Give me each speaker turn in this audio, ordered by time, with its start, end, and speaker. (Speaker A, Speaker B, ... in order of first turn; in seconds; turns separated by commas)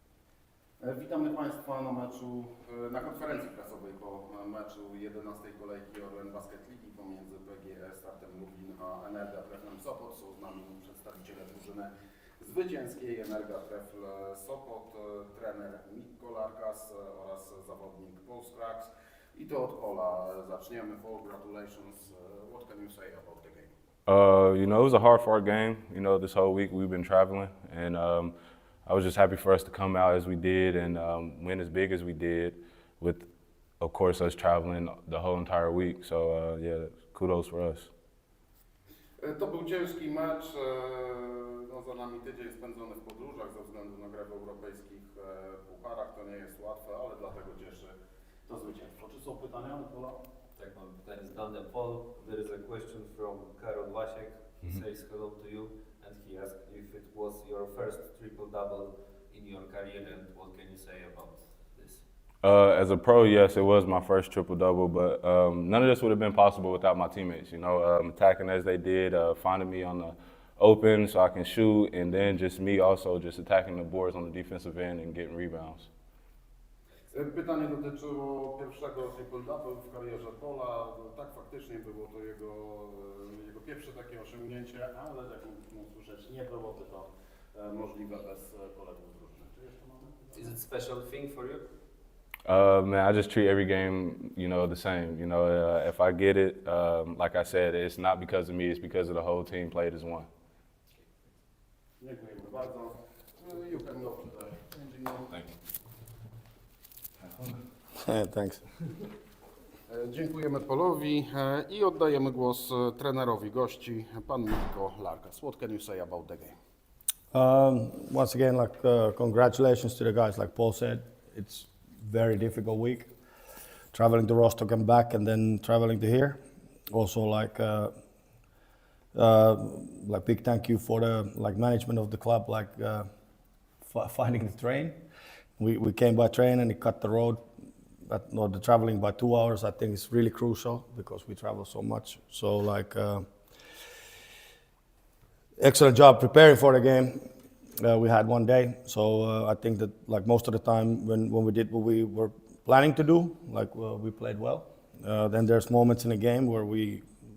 Speaker A: 0.8-23.7, Speaker B: 24.1-33.3, Speaker B: 33.8-37.9, Speaker A: 39.2-47.9, Speaker A: 48.5-50.2, Speaker C: 50.6-62.0, Speaker B: 62.4-75.9, Speaker A: 77.1-90.5, Speaker C: 90.3-91.7, Speaker B: 92.5-100.3, Speaker A: 102.0-105.4, Speaker D: 108.0-108.6, Speaker A: 109.9-116.5, Speaker D: 117.3-123.1, Speaker D: 123.9-126.4, Speaker D: 126.9-127.9, Speaker D: 129.1-133.1, Speaker D: 133.8-135.0, Speaker D: 135.6-137.4, Speaker D: 138.1-143.3, Speaker D: 145.6-147.3, Speaker D: 147.8-157.1